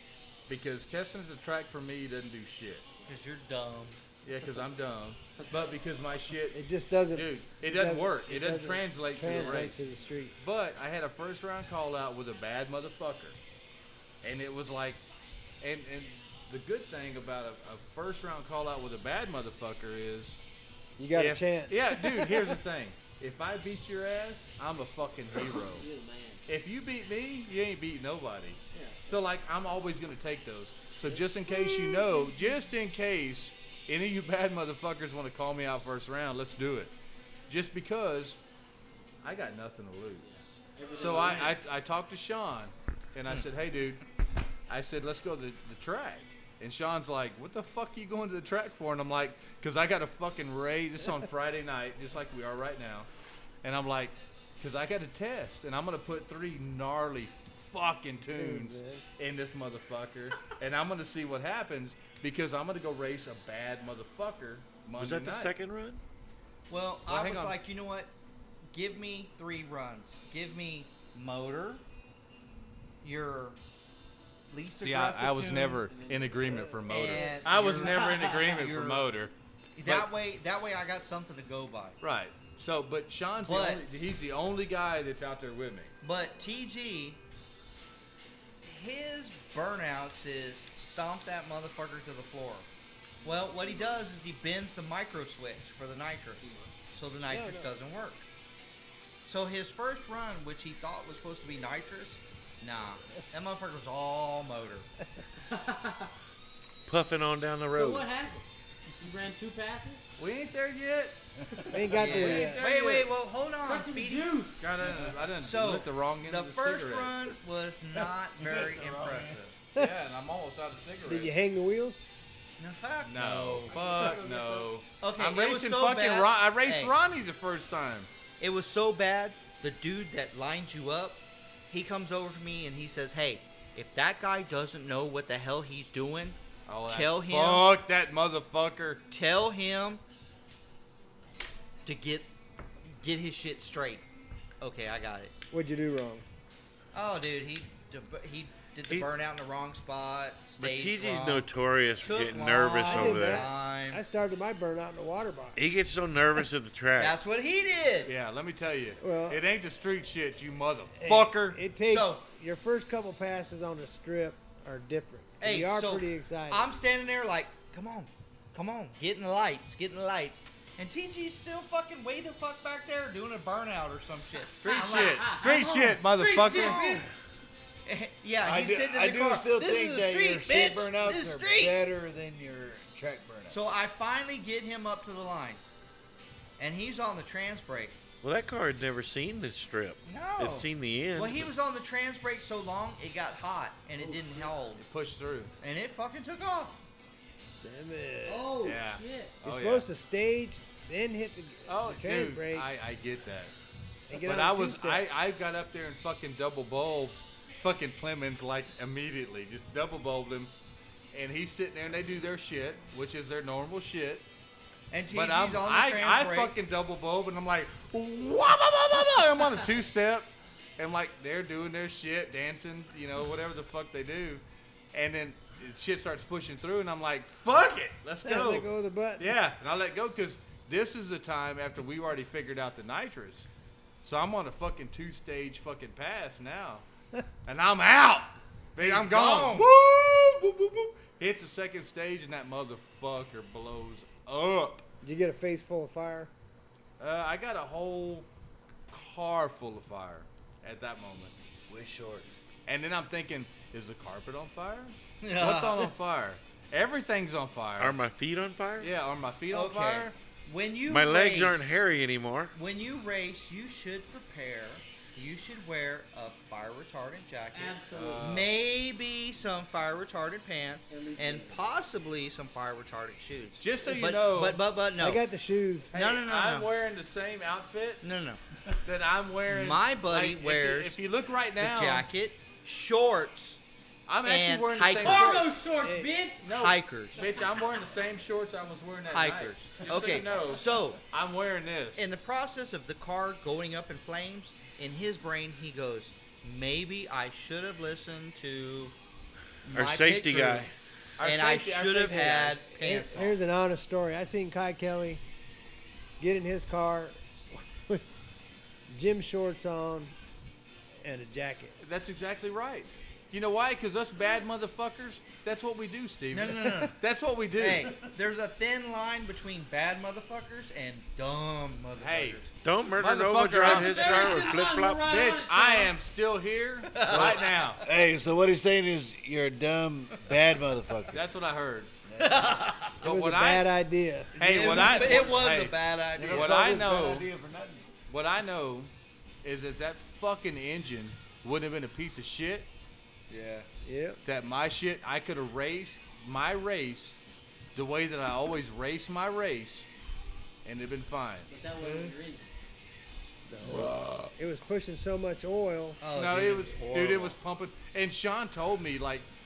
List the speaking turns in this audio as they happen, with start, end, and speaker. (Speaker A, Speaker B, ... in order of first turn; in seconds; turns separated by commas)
Speaker A: 0.5-2.8, Speaker B: 3.0-4.0, Speaker A: 4.2-9.8, Speaker C: 6.5-10.3, Speaker A: 10.4-13.4, Speaker A: 14.2-15.0, Speaker A: 15.6-20.4, Speaker C: 21.0-22.6, Speaker A: 21.1-25.8, Speaker D: 25.6-26.4, Speaker A: 26.5-36.9, Speaker D: 28.7-29.1, Speaker A: 37.5-38.4, Speaker A: 39.2-40.2, Speaker D: 40.2-41.6, Speaker A: 40.9-44.0, Speaker B: 41.0-41.3, Speaker A: 44.7-53.1, Speaker A: 53.6-65.5, Speaker C: 58.3-59.0, Speaker E: 65.0-66.0, Speaker B: 66.7-68.1, Speaker A: 67.1-67.5, Speaker B: 68.7-71.8, Speaker B: 73.0-73.6, Speaker B: 74.5-75.8, Speaker A: 74.8-79.3, Speaker D: 75.8-78.5, Speaker B: 76.8-79.1, Speaker B: 79.8-82.0, Speaker A: 79.8-80.1, Speaker A: 82.0-85.9, Speaker B: 83.4-83.8, Speaker B: 86.0-87.2, Speaker B: 88.6-92.7, Speaker D: 93.2-94.1, Speaker B: 93.2-98.2, Speaker D: 96.4-96.7, Speaker C: 97.3-97.7, Speaker B: 99.2-104.9, Speaker D: 105.5-106.1, Speaker E: 106.9-108.1, Speaker D: 107.7-108.4, Speaker D: 109.0-110.0, Speaker A: 110.2-111.2, Speaker C: 111.7-112.7, Speaker A: 111.9-113.0, Speaker B: 112.0-114.4, Speaker D: 112.1-113.1, Speaker D: 113.6-114.7, Speaker A: 114.6-117.3, Speaker F: 114.8-115.3, Speaker B: 115.4-119.5, Speaker F: 118.3-119.4, Speaker A: 119.7-121.3, Speaker C: 121.0-122.0, Speaker B: 122.6-124.2, Speaker A: 123.0-128.1, Speaker D: 123.7-124.8, Speaker B: 125.0-126.9, Speaker B: 128.4-137.7, Speaker A: 136.7-139.0, Speaker B: 139.1-140.0, Speaker B: 141.8-142.3, Speaker B: 142.9-144.1, Speaker B: 144.6-145.3, Speaker C: 145.5-146.2, Speaker B: 146.9-151.5, Speaker E: 150.6-153.5, Speaker B: 152.0-154.0, Speaker C: 152.7-155.6, Speaker E: 155.6-157.2, Speaker B: 156.9-158.1, Speaker A: 158.0-161.6, Speaker C: 159.0-159.4, Speaker C: 161.0-166.7, Speaker B: 161.8-162.2, Speaker B: 165.4-175.5, Speaker A: 174.5-177.0, Speaker D: 174.6-177.1, Speaker B: 176.4-177.0, Speaker B: 177.8-181.8, Speaker F: 178.4-183.6, Speaker B: 183.5-185.6, Speaker B: 186.6-188.0, Speaker E: 188.2-191.5, Speaker B: 190.0-194.8, Speaker D: 194.0-194.5, Speaker A: 194.8-195.5, Speaker B: 195.6-196.8, Speaker C: 197.6-198.6, Speaker D: 198.2-199.4, Speaker A: 198.6-199.8, Speaker C: 199.4-202.7, Speaker A: 201.7-203.5, Speaker C: 204.1-205.0, Speaker A: 204.2-210.5, Speaker A: 211.1-214.2, Speaker B: 214.9-216.5, Speaker A: 215.1-233.5, Speaker C: 228.2-229.3, Speaker A: 234.0-236.8, Speaker A: 237.4-244.8, Speaker B: 238.8-239.7, Speaker C: 245.0-246.3, Speaker A: 247.0-248.3, Speaker A: 248.9-251.3, Speaker F: 251.7-252.3, Speaker A: 252.7-258.0, Speaker B: 255.2-255.9, Speaker E: 257.8-258.9, Speaker A: 258.8-260.1, Speaker B: 259.5-261.8, Speaker E: 260.9-262.5, Speaker B: 262.5-275.2, Speaker D: 267.5-268.5, Speaker A: 267.9-268.5, Speaker D: 270.9-271.7, Speaker A: 273.6-274.6, Speaker C: 275.0-275.9, Speaker B: 275.9-276.7, Speaker A: 275.9-278.0, Speaker B: 278.0-278.4, Speaker A: 278.8-282.1, Speaker B: 279.5-281.0, Speaker B: 281.6-283.6, Speaker A: 284.1-285.5, Speaker B: 284.2-285.5, Speaker D: 285.0-286.6, Speaker C: 285.8-286.1, Speaker A: 286.4-292.1, Speaker B: 286.4-287.3, Speaker B: 289.1-291.0, Speaker D: 289.8-290.2, Speaker B: 291.9-298.9, Speaker B: 299.6-300.7, Speaker E: 299.7-300.7, Speaker A: 301.2-302.6, Speaker B: 301.2-303.4, Speaker C: 302.7-305.2, Speaker C: 306.2-308.0, Speaker C: 308.9-310.1, Speaker C: 311.0-311.8, Speaker A: 311.8-318.0, Speaker B: 316.3-316.9, Speaker B: 317.6-322.5, Speaker A: 322.0-322.4, Speaker E: 322.6-325.2, Speaker A: 322.9-327.8, Speaker D: 323.6-325.9, Speaker B: 326.9-327.9, Speaker F: 327.1-331.2, Speaker A: 331.1-331.9, Speaker F: 332.1-332.6, Speaker B: 332.2-332.9, Speaker A: 333.0-333.7, Speaker C: 333.0-334.4, Speaker A: 334.4-337.3, Speaker F: 334.4-335.3, Speaker B: 334.4-336.9, Speaker F: 336.1-337.9, Speaker A: 338.1-338.9, Speaker A: 339.4-342.7, Speaker B: 343.3-343.7, Speaker C: 343.8-344.2, Speaker A: 344.2-347.2, Speaker A: 347.8-349.9, Speaker A: 350.6-351.5, Speaker D: 351.5-352.5, Speaker C: 353.5-356.0, Speaker F: 353.7-354.3, Speaker B: 356.0-357.4, Speaker A: 356.1-359.3